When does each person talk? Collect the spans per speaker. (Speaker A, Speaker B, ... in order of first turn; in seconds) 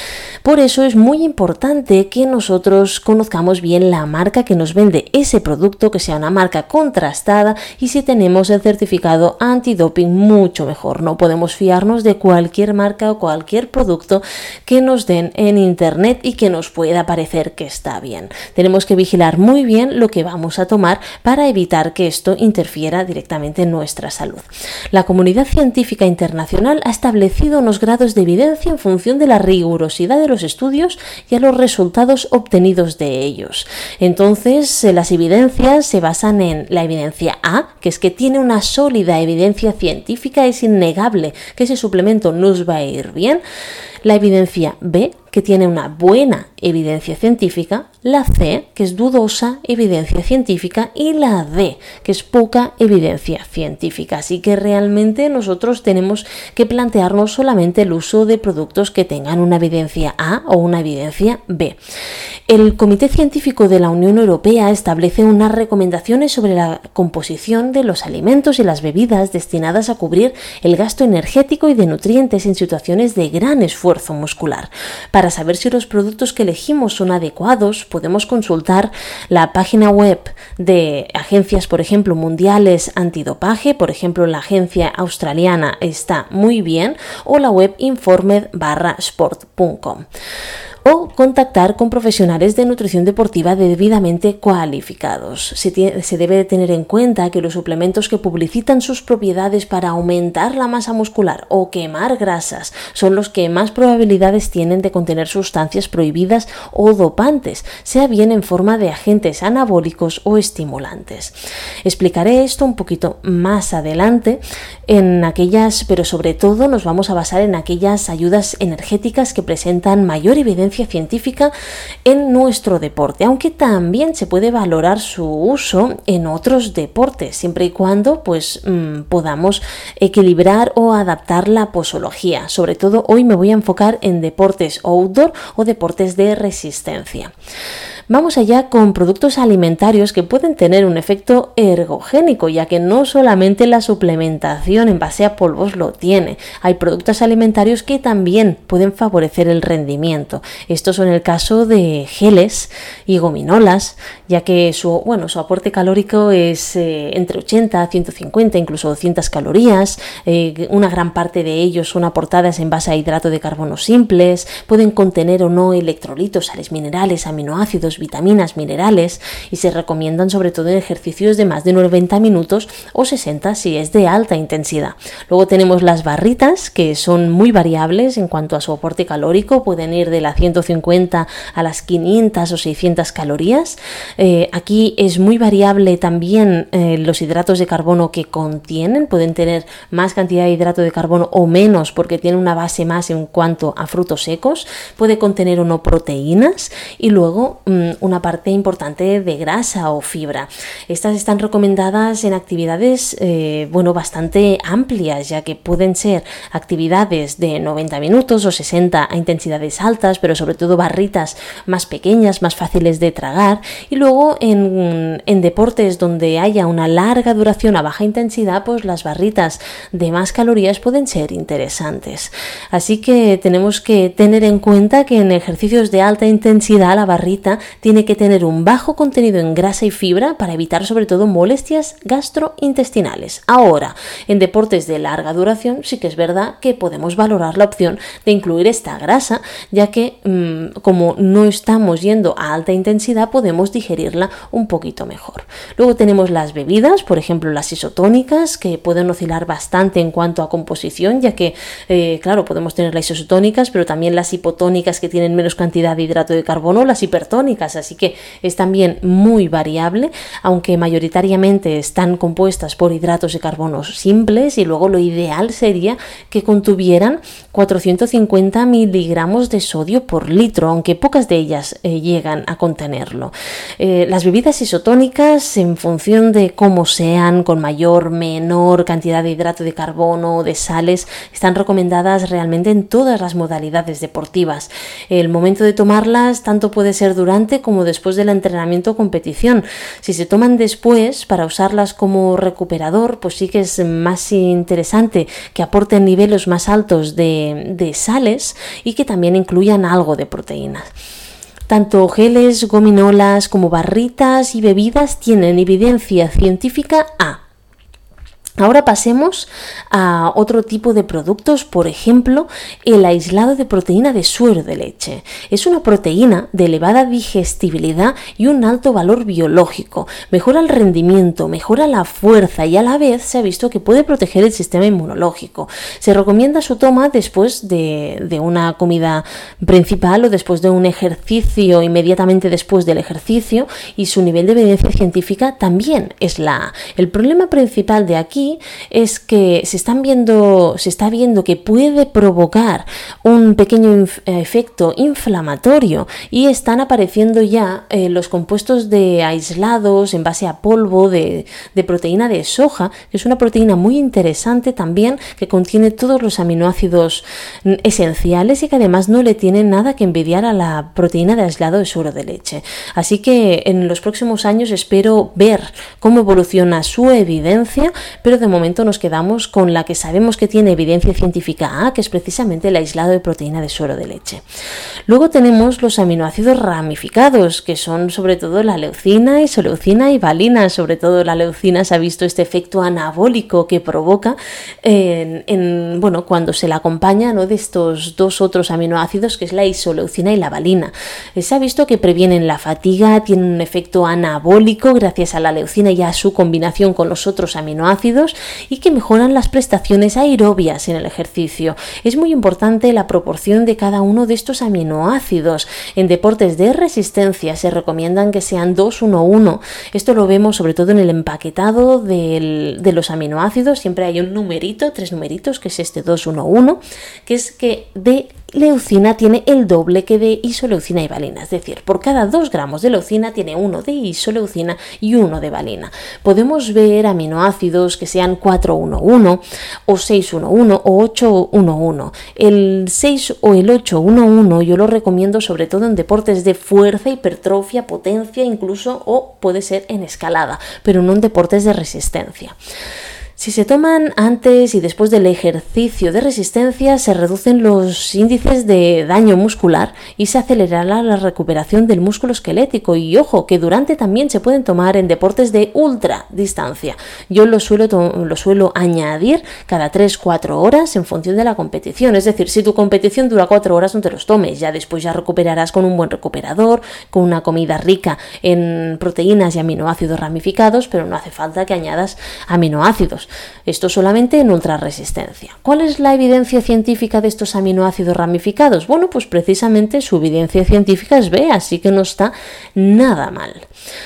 Speaker A: 0.4-43.4, 44.0-61.8, 62.5-90.0, 90.8-121.5, 122.0-137.3, 138.1-300.9, 301.7-307.4, 308.6-374.4, 375.1-442.6, 443.4-483.7